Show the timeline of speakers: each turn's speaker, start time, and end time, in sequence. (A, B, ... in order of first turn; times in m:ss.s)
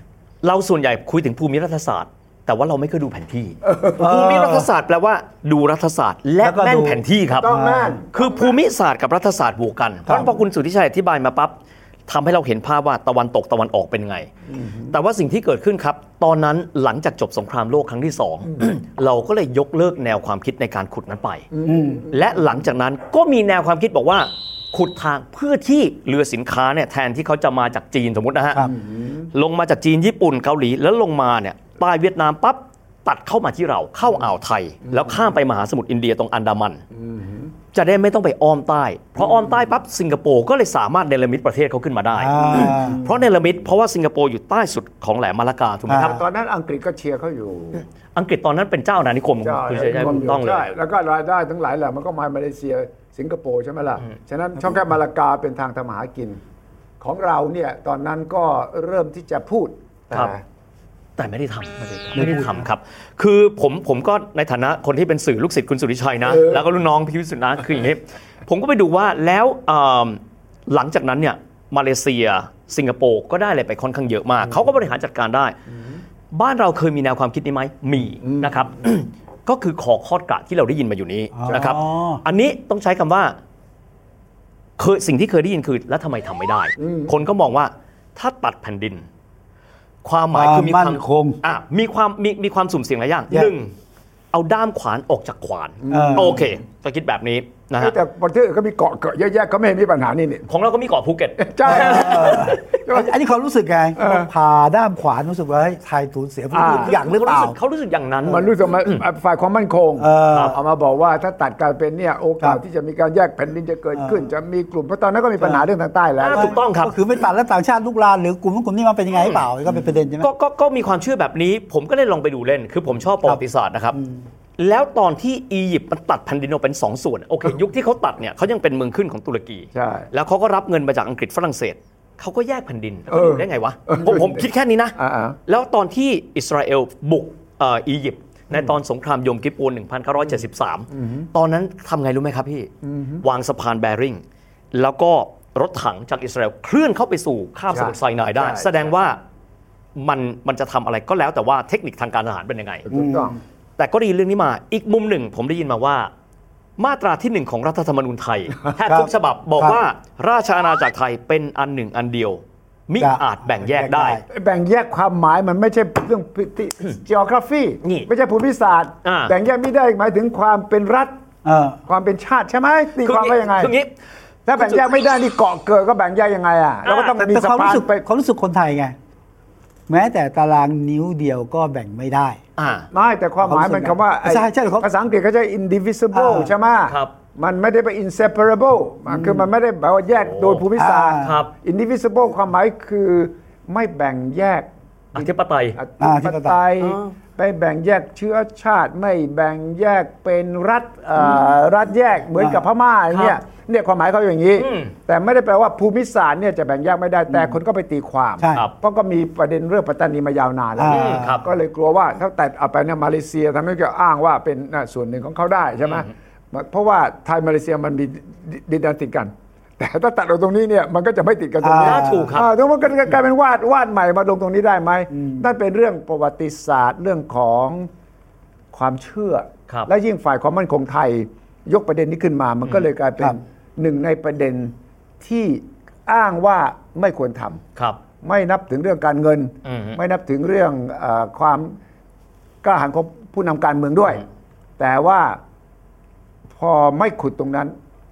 0:00.4-0:07.5 A
0:03.6-0:04.1 B
0:04.0-0:04.7 C
0:06.4-0:08.0 C
0:07.4-0:08.6 B
0:08.1-0:14.3 A
0:14.6-0:14.9 B
0:14.9-0:21.5 A
0:21.5-0:22.2 B
0:21.6-0:22.0 C
0:22.1-0:28.7 A
0:28.6-0:29.3 B
0:29.3-0:36.8 A
0:34.9-0:35.1 B
0:36.9-0:37.5 B
0:37.7-0:46.2 A
0:42.2-0:43.0 C
0:42.5-0:42.9 B
0:45.9-0:46.2 C
0:46.0-0:47.8 B
0:48.1-0:50.7 A
0:49.4-0:56.4 B
0:57.0-1:00.4 B
1:01.2-1:15.6 A
1:02.1-1:02.6 C
1:06.2-1:06.6 B
1:16.3-1:23.4 A
1:18.2-1:18.5 B
1:21.3-1:22.2 C
1:24.8-1:29.1 A
1:26.8-1:27.1 B
1:30.0-1:33.7 A
1:30.3-1:31.4 C
1:34.3-1:38.0 A
1:35.8-1:36.6 B
1:35.9-1:36.4 C
1:37.8-1:40.5 B
1:40.5-1:42.6 A
1:41.4-1:43.1 B
1:41.6-1:47.6 C
1:44.0-1:44.3 B
1:46.5-1:47.0 B
1:46.7-1:49.0 A
1:48.2-1:56.6 B
1:50.0-1:50.6 C
1:50.3-1:50.6 A
1:54.0-1:54.2 C
1:56.2-1:56.9 A
1:56.3-2:00.3 C
1:59.1-1:59.5 A
2:00.2-2:04.0 A
2:03.9-2:04.2 C
2:04.6-2:15.0 A
2:09.7-2:10.1 B
2:13.1-2:15.4 B
2:15.5-2:22.7 A
2:20.9-2:21.3 B
2:22.8-2:23.2 B
2:23.2-2:24.2 A
2:24.7-2:29.2 A
2:27.7-2:28.8 B
2:30.0-2:32.8 A
2:32.8-2:33.4 B
2:32.9-2:33.4 C
2:33.8-2:36.1 A
2:36.8-2:44.2 A
2:38.9-2:39.8 C
2:43.0-2:44.2 C
2:44.3-2:51.1 B
2:47.8-2:48.1 A
2:49.0-2:49.3 A
2:51.4-2:51.8 C
2:51.9-2:53.7 B
2:53.0-2:53.9 A
2:54.4-2:58.0 B
2:54.6-2:54.8 A
2:56.8-2:57.2 A
2:57.2-2:59.0 C
2:59.9-3:02.4 C
3:02.6-3:02.9 A
3:02.9-3:47.9 B
3:03.4-3:04.9 C
3:06.1-3:06.5 C
3:06.9-3:07.1 A
3:09.1-3:09.5 C
3:10.2-3:10.6 A
3:10.8-3:11.3 C
3:11.2-3:11.5 A
3:15.1-3:15.8 A
3:16.0-3:16.6 C
3:16.8-3:17.1 A
3:23.1-3:23.4 A
3:24.6-3:24.9 A
3:28.4-3:28.6 C
3:30.8-3:31.3 C
3:30.9-3:31.4 A
3:41.6-3:42.3 C
3:41.8-3:42.5 A
3:45.1-3:45.4 C
3:48.7-3:57.6 B
3:57.8-3:58.0 A
3:58.2-4:01.8 B
3:59.6-4:00.0 A
4:02.6-4:04.2 B
4:04.8-4:05.4 B
4:06.6-4:07.7 B